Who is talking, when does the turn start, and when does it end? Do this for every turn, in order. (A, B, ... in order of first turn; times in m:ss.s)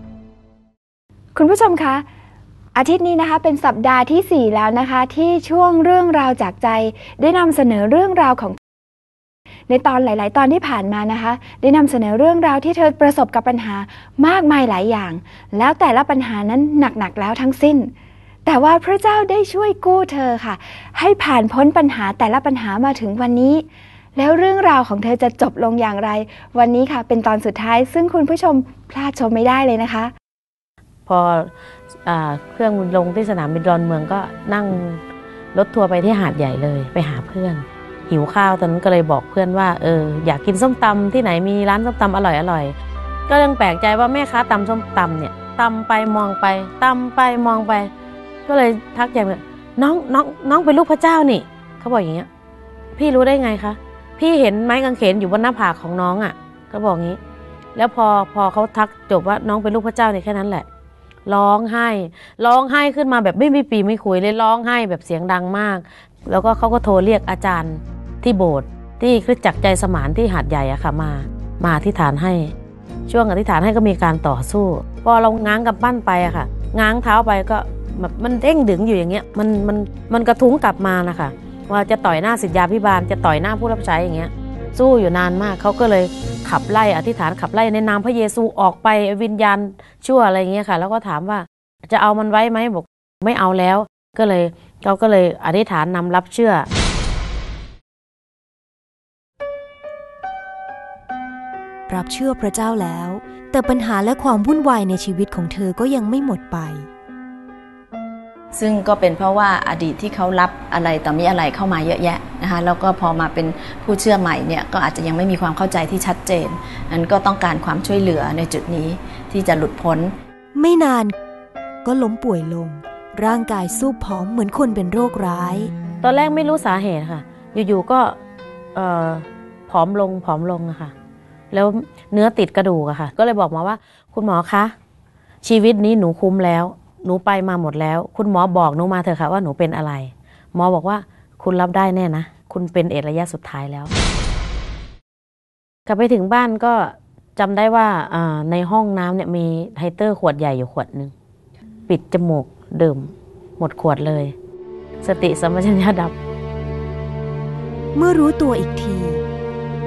0:01.4-0:02.0 A
0:02.8-0:08.6 A
0:09.7-0:17.9 A
0:18.5-0:23.6 A
0:24.2-0:30.1 A
0:31.1-0:31.5 B
0:32.0-0:35.0 B
0:35.5-0:42.7 B
0:43.3-0:47.9 B
0:48.5-0:52.3 B
0:53.0-0:57.2 B
0:57.8-1:00.7 B
1:01.3-1:12.5 B
1:13.1-1:36.7 B
1:41.9-1:46.9 C
1:48.5-2:00.1 D
2:00.6-2:01.2 C
2:01.8-2:05.7 C
2:06.0-2:08.2 B
2:08.8-2:10.9 B
2:11.5-2:14.7 B
2:15.4-2:23.9 B
2:25.9-2:31.1 B
2:31.9-2:34.3 B
2:35.0-2:36.1 B
2:38.0-2:39.2 C